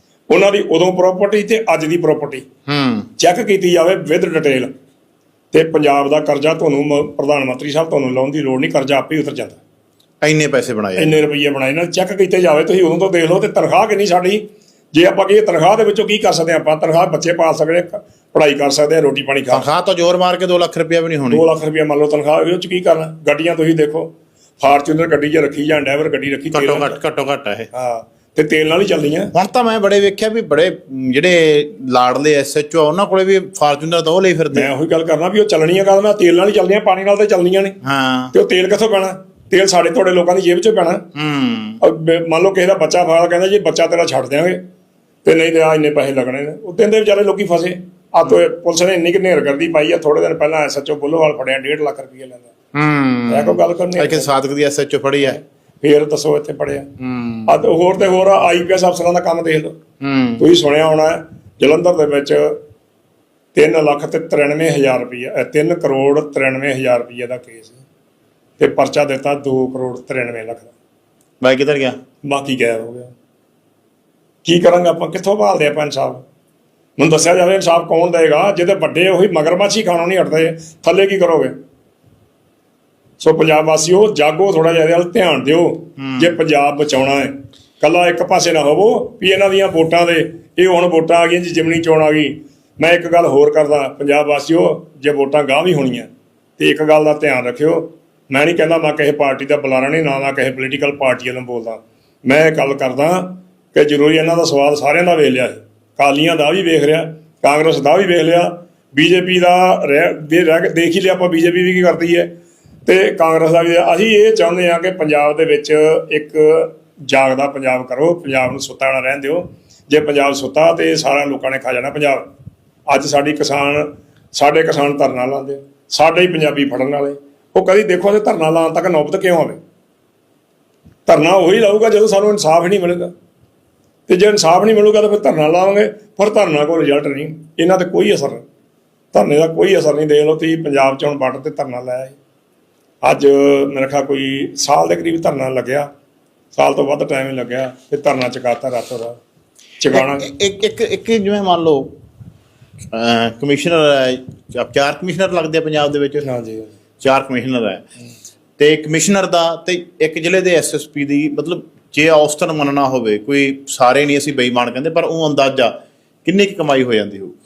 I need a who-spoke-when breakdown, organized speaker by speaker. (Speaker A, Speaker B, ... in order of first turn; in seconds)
Speaker A: 0.3-2.4, 3.2-4.7, 5.5-9.6, 11.0-19.7, 21.3-27.0, 27.7-29.3, 34.5-37.8, 38.3-41.0, 41.8-44.6, 45.2-52.5, 53.3-54.3, 55.2-56.9, 57.5-59.8, 60.4-62.6, 63.5-67.8, 68.6-70.7, 72.3-73.1, 74.5-76.2, 77.0-81.5, 83.2-112.3, 112.9-122.3, 122.9-129.6, 131.1-133.1, 134.1-138.4, 139.1-142.2, 143.0-145.9, 146.5-149.2, 149.8-150.3, 156.2-156.7
Speaker B: 2.7-3.1, 10.2-11.2, 19.5-21.4, 26.5-27.7, 29.3-34.7, 37.8-38.3, 41.1-41.8, 52.7-55.4, 57.0-57.5, 60.0-60.5, 71.4-72.0, 86.0-86.3, 149.9-151.9, 152.9-156.2, 157.0-157.8, 158.6-165.7, 166.2-167.3